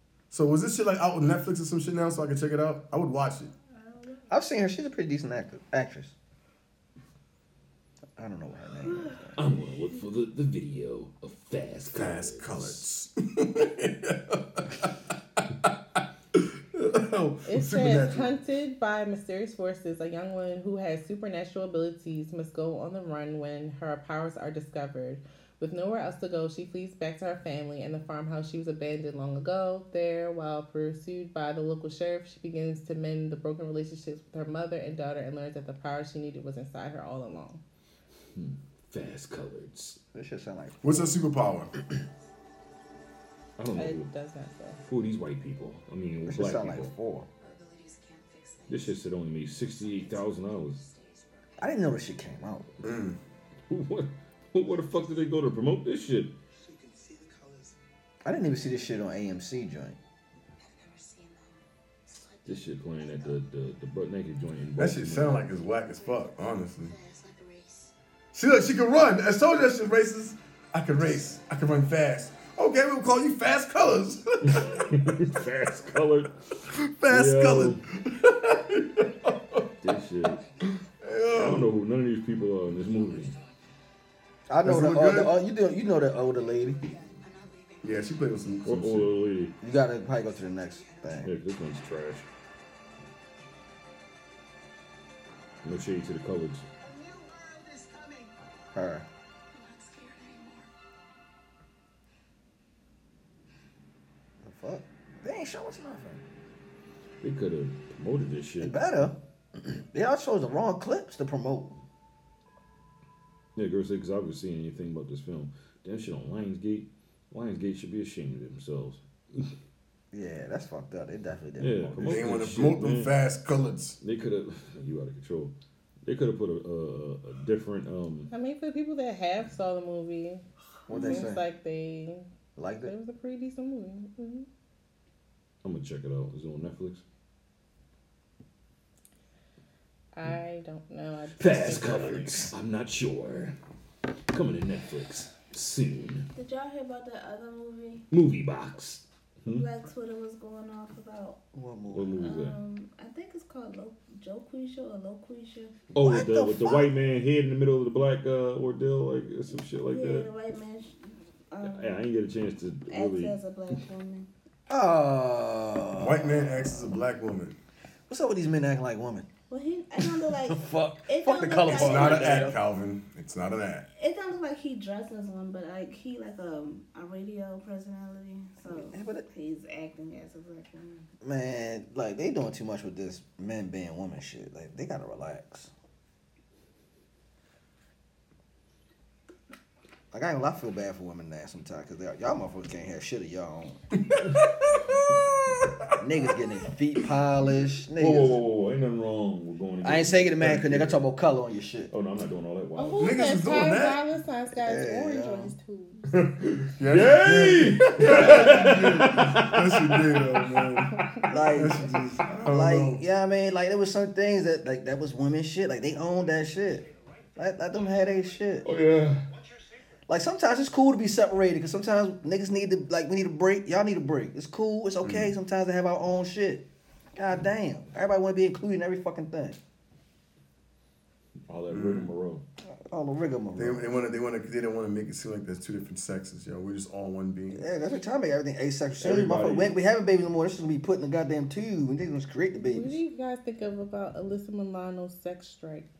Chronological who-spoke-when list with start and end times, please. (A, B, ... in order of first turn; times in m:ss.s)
0:00.3-0:03.5 A
0:03.7-0:04.3 B
0:04.3-0:06.1 C
0:08.2-0:09.4 C
0:09.4-0:12.8 D
0:11.9-0:14.9 A
0:16.3-0:18.3 A
0:17.5-0:37.6 E
0:38.3-0:40.0 D
0:40.1-0:41.2 C
0:40.8-0:41.7 A
0:43.6-0:44.1 D
0:43.7-0:44.8 E
0:44.8-0:46.9 D
0:46.3-0:47.3 C
0:48.7-0:50.8 D
0:51.6-0:52.7 C
0:52.8-0:53.2 A
0:53.7-0:56.3 D
0:58.2-1:00.0 C
1:02.4-1:05.4 D
1:04.8-1:06.9 A
1:08.3-1:14.9 A
1:14.4-1:16.3 D
1:16.7-1:19.6 A
1:17.1-1:17.8 D
1:19.8-1:20.4 D
1:21.0-1:21.7 A
1:21.3-1:23.3 D
1:24.5-1:26.8 C
1:24.6-1:25.4 A
1:27.8-1:29.1 A
1:28.6-1:29.6 D
1:29.6-1:31.3 C
1:31.2-1:32.2 D
1:35.6-1:36.6 D
1:38.7-1:39.0 C
1:44.4-1:46.2 C
1:47.2-1:48.8 D
1:48.6-1:51.8 C
1:53.6-1:59.5 D
2:00.1-2:02.3 C
2:01.6-2:03.2 D
2:02.0-2:04.0 A
2:04.0-2:08.3 D
2:08.3-2:12.3 E
2:10.9-2:11.4 C
2:12.6-2:12.9 C
2:12.8-2:14.5 E
2:15.6-2:17.0 D
2:20.1-2:22.4 E
2:21.4-2:23.5 D
2:24.3-2:26.3 D
2:26.3-2:28.0 B
2:28.1-2:29.6 D
2:29.5-2:31.4 B
2:31.5-2:32.3 C
2:31.9-2:32.6 D
2:32.2-2:35.7 B
2:35.9-2:40.3 D
2:36.0-2:36.9 C
2:39.9-2:42.1 B
2:41.6-2:43.3 D
2:42.9-2:44.3 B
2:44.7-2:46.8 C
2:46.0-2:47.6 A
2:48.1-2:49.3 C
2:49.5-2:52.5 B
2:50.4-2:52.6 C
2:51.7-2:53.8 A
2:54.0-3:01.0 B
2:58.7-2:59.2 C
3:01.2-3:05.7 C
3:10.1-3:13.8 C
3:14.1-3:14.8 A
3:16.0-3:18.4 C
3:18.0-3:21.0 D
3:19.8-3:21.9 C
3:21.9-3:23.3 D
3:22.8-3:26.0 E
3:23.0-3:24.0 A
3:24.5-3:25.5 C
3:26.1-3:30.3 D
3:26.8-3:33.0 A
3:31.3-3:38.6 C
3:38.6-3:39.2 D
3:40.1-3:46.6 C
3:45.0-3:45.3 A
3:47.2-3:49.6 C
3:51.5-3:52.4 D
3:51.7-3:52.1 A
3:52.6-3:53.8 C
3:53.6-3:57.6 A
3:57.5-4:03.0 C
3:59.0-3:59.7 D
4:02.6-4:05.9 E